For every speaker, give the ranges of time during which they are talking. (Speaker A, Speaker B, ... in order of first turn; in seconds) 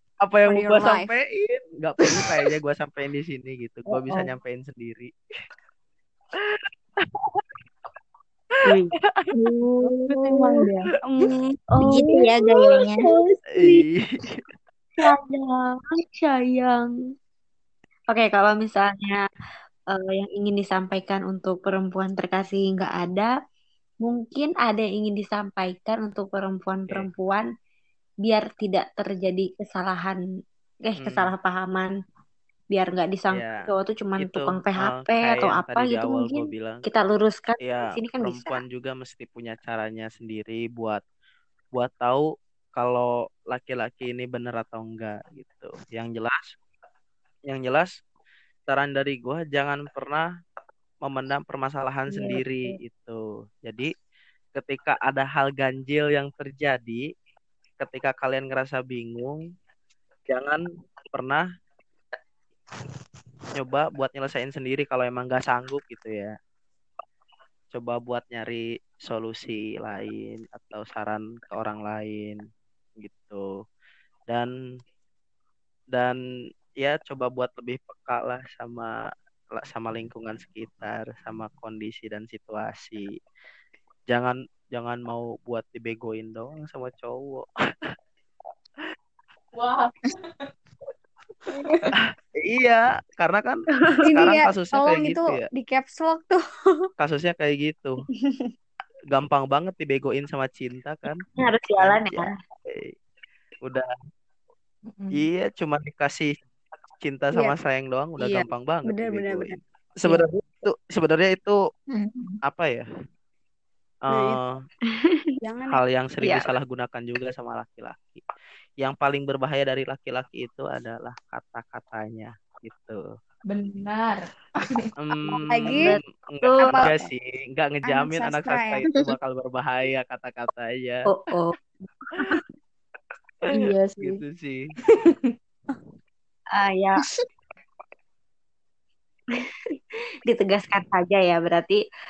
Speaker A: 0.2-5.1, 6.4-7.4, 13.6-14.4, 31.0-31.3, 33.3-33.6, 34.2-36.8, 37.6-41.0, 41.7-46.5, 47.5-47.9, 48.7-50.2, 51.0-53.9, 54.6-57.0, 57.8-59.4, 60.3-61.4, 63.5-66.3, 67.7-72.4, 73.0-73.5, 76.8-79.0, 79.6-83.1, 84.1-87.9, 91.9-95.4, 97.0-98.0, 99.1-101.2, 101.8-102.9, 105.1-106.3, 107.0-111.6, 112.5-112.9, 114.1-114.6, 115.7-118.2, 118.8-123.1, 125.0-131.0, 132.2-132.4, 133.5-134.7
Speaker B: 0.5-1.1, 94.0-96.9, 108.2-109.6, 114.1-114.4, 115.4-115.8, 125.3-125.9, 126.6-127.1, 127.9-128.8
Speaker C: 3.9-4.3, 8.6-8.9, 9.8-10.6, 11.7-13.8, 15.0-16.9, 18.1-19.2, 19.9-23.3, 24.0-27.5, 28.2-30.2, 30.9-31.9, 32.7-38.6, 52.1-52.8, 93.8-94.1, 101.4-102.3, 125.6-126.9, 131.1-132.4, 136.6-137.0, 140.2-141.8
Speaker D: 9.4-9.9, 11.8-13.1, 111.9-112.4
Speaker E: 10.3-10.7, 89.6-90.1, 123.5-124.9, 133.5-134.2, 134.8-135.3